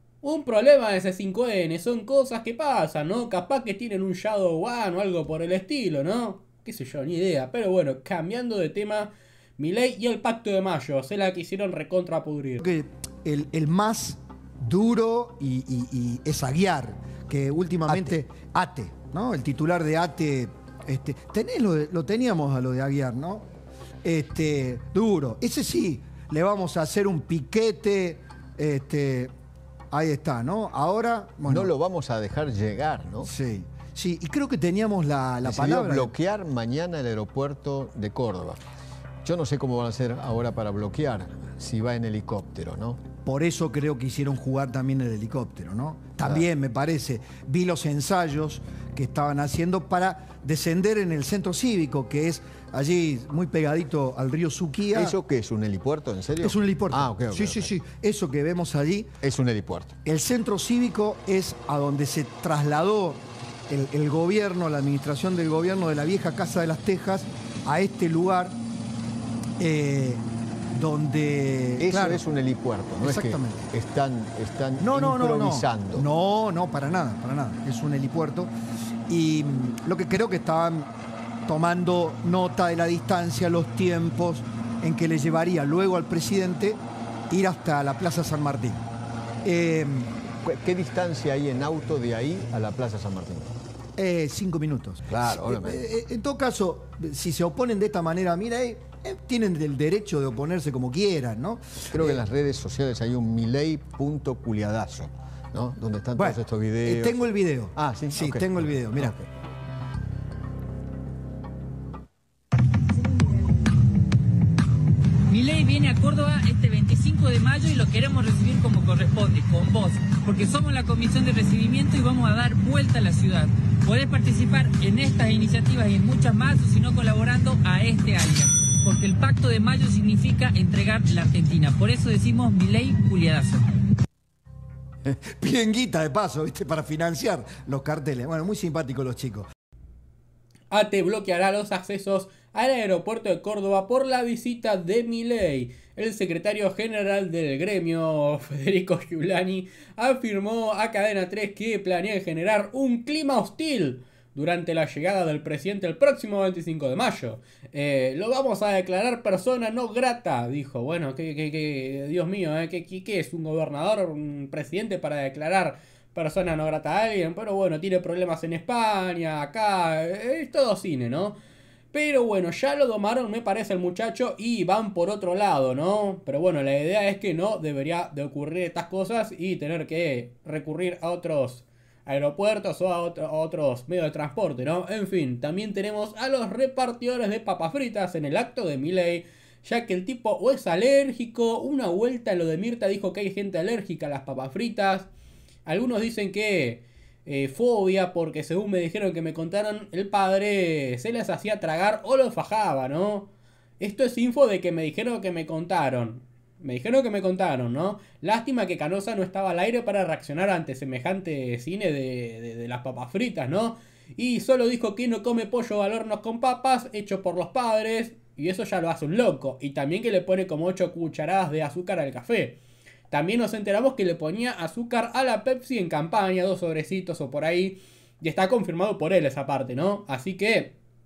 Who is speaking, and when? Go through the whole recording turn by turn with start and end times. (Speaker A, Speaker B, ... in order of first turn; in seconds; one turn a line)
Speaker A: 0.2-12.6
Speaker B: 12.6-23.5
Speaker B: 24.0-29.3
Speaker B: 29.9-31.7
Speaker C: 31.4-33.3
Speaker B: 33.2-36.1
Speaker C: 35.4-38.6
Speaker C: 39.2-43.0
Speaker B: 43.2-55.1
Speaker C: 54.9-57.8
Speaker B: 56.4-59.1
Speaker C: 59.2-60.0
Speaker B: 60.1-68.6
Speaker B: 69.6-70.2
Speaker B: 70.7-72.2
Speaker C: 71.8-76.1
Speaker B: 73.0-73.7
Speaker B: 74.8-78.5
Speaker B: 79.1-80.9
Speaker B: 81.5-88.8
Speaker B: 89.4-90.1
Speaker C: 90.4-93.5
Speaker B: 94.0-102.2
Speaker C: 95.1-95.8
Speaker C: 101.9-109.3
Speaker B: 106.2-109.2
Speaker D: 115.3-133.7
Speaker B: 135.1-139.5
Speaker A: 140.7-171.4
Speaker A: 171.9-195.1
Speaker A: 195.7-203.3
Speaker A: 203.8-222.6
Speaker A: 223.1-230.7